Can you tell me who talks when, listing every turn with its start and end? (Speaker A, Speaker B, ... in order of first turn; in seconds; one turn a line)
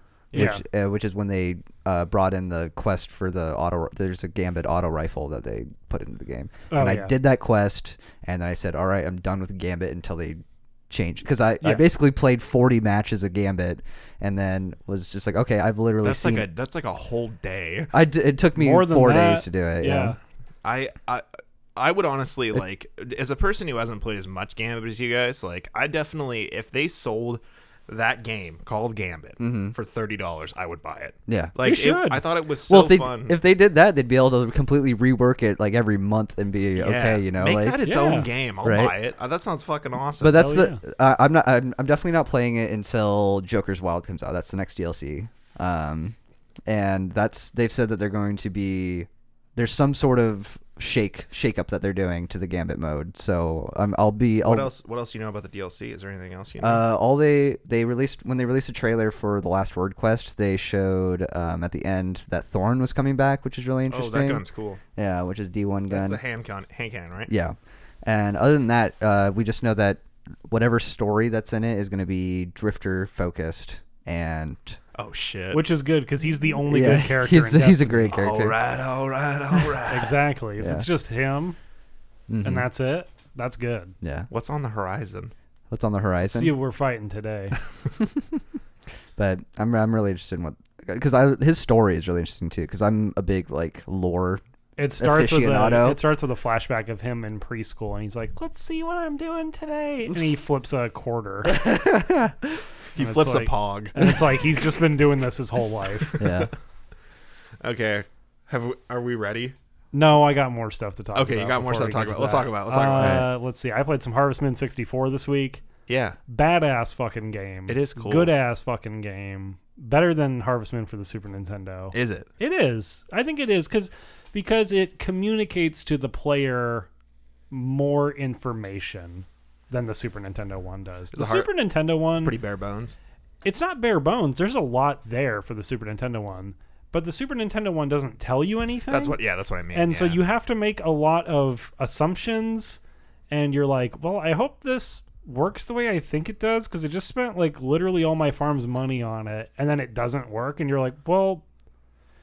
Speaker A: 0.3-0.6
Speaker B: 0.3-0.6
Speaker C: 0.3-16.5
Speaker B: 6.7-7.1
Speaker A: 16.0-17.9
Speaker C: 17.9-20.1
Speaker B: 18.5-20.2
Speaker A: 20.6-21.2
Speaker A: 21.8-33.4
Speaker C: 29.4-29.7
Speaker C: 31.3-31.5
Speaker B: 31.6-32.2
Speaker C: 32.7-37.8
Speaker A: 36.8-40.4
Speaker B: 37.8-38.3
Speaker C: 38.6-39.0
Speaker C: 40.2-46.1
Speaker B: 40.3-40.8
Speaker C: 46.7-54.7
Speaker A: 54.4-56.8
Speaker C: 56.6-64.4
Speaker A: 63.9-64.8
Speaker C: 65.0-66.2
Speaker A: 65.9-67.3
Speaker C: 67.3-74.8
Speaker A: 74.9-75.6
Speaker B: 75.5-78.2
Speaker C: 76.7-78.6
Speaker A: 78.1-80.2
Speaker B: 79.8-81.6
Speaker C: 80.6-80.9
Speaker C: 82.3-82.7
Speaker B: 82.4-83.9
Speaker C: 84.0-84.3
Speaker A: 84.3-85.3
Speaker C: 85.7-86.5
Speaker B: 86.2-87.5
Speaker C: 88.0-88.4
Speaker C: 89.2-94.4
Speaker B: 94.8-101.6
Speaker C: 95.0-96.0
Speaker C: 101.5-102.6
Speaker A: 102.9-104.1
Speaker B: 103.0-106.2
Speaker A: 106.0-106.5
Speaker C: 106.2-106.5
Speaker A: 107.6-109.5
Speaker B: 109.9-115.6
Speaker A: 111.1-113.3
Speaker C: 113.0-113.3
Speaker A: 115.9-116.2
Speaker B: 116.3-126.9
Speaker A: 117.7-118.3
Speaker A: 121.9-122.3
Speaker B: 127.5-132.3
Speaker A: 131.1-131.5
Speaker A: 132.2-132.9
Speaker B: 133.4-139.2
Speaker A: 138.9-140.2
Speaker B: 139.7-151.4